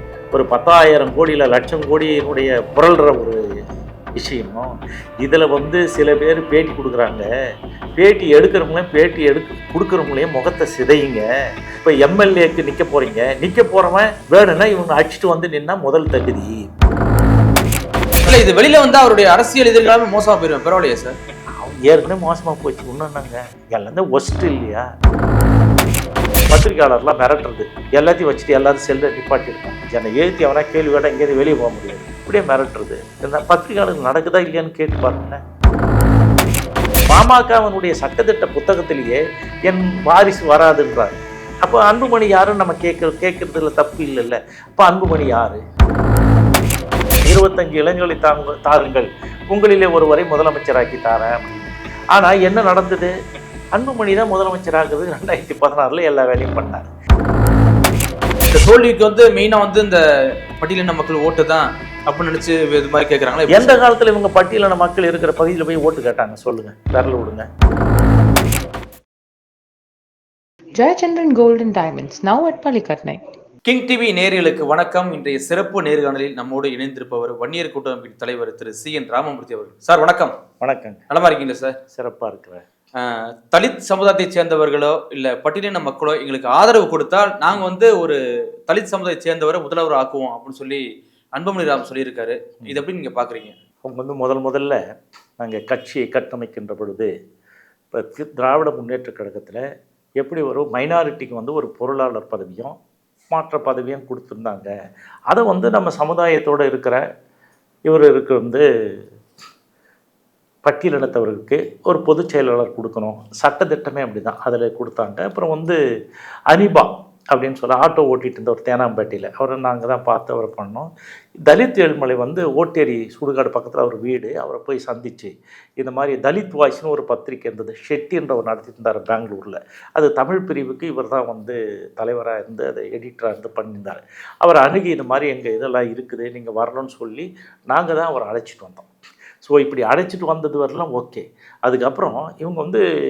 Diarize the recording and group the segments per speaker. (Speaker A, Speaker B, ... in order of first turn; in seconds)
Speaker A: 0.3-3.4, 4.2-4.7, 5.2-7.3, 8.0-11.2, 11.8-16.6, 21.6-24.9, 26.5-35.4, 37.1-45.6, 47.3-53.1, 53.8-56.9, 63.5-67.5, 80.6-81.0, 81.9-82.6, 93.9-94.8, 95.4-97.1, 97.9-99.6, 100.2-102.8, 103.3-104.7, 105.3-107.0, 107.9-108.6, 110.7-115.8, 116.5-120.9, 121.5-138.9, 139.4-142.8
Speaker B: 18.2-21.1, 58.5-60.0, 60.6-63.8, 73.7-80.3, 81.1-81.8, 83.0-90.8, 91.4-93.6
Speaker C: 70.8-73.2